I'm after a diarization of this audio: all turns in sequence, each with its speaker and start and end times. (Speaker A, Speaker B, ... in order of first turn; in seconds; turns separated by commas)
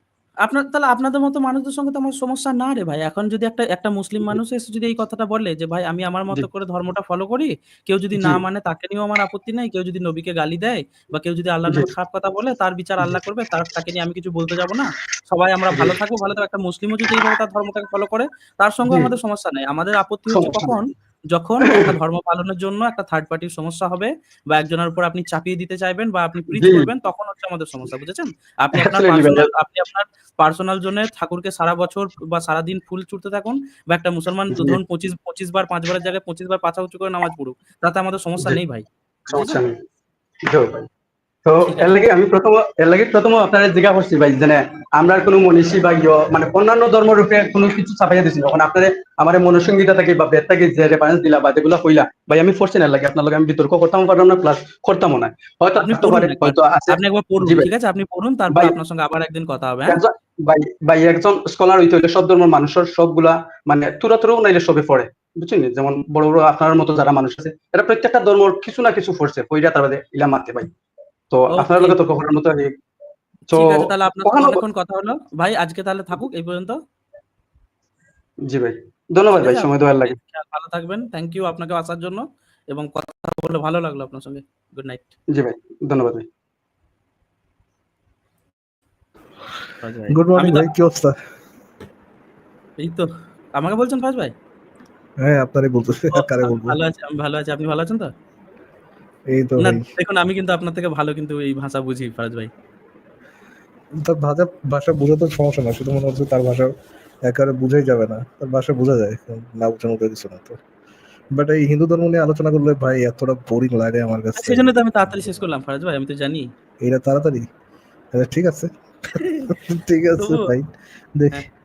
Speaker A: 0.4-39.6, Speaker B: 20.3-20.8, Speaker B: 21.6-21.9, Speaker B: 26.5-26.9, Speaker B: 28.7-29.5, Speaker B: 34.5-34.8, Speaker B: 39.3-39.7, Speaker B: 40.4-40.9, Speaker B: 41.5-57.7, Speaker A: 41.6-42.0, Speaker A: 55.8-60.0, Speaker B: 58.5-58.8, Speaker B: 59.9-70.7, Speaker B: 71.3-72.7, Speaker A: 71.5-72.0, Speaker B: 73.5-74.6, Speaker A: 73.5-76.8, Speaker B: 78.5-80.2, Speaker A: 79.4-85.1, Speaker B: 85.3-86.2, Speaker A: 89.8-90.7, Speaker C: 90.1-91.2, Speaker A: 92.8-94.3, Speaker C: 95.2-96.8, Speaker A: 96.1-98.1, Speaker C: 99.3-99.8, Speaker A: 99.6-102.5, Speaker C: 104.0-106.7, Speaker C: 107.2-110.6, Speaker C: 111.3-115.4, Speaker A: 114.4-116.5, Speaker C: 116.8-117.5, Speaker C: 118.1-121.4, Speaker A: 119.2-119.6, Speaker A: 120.2-120.5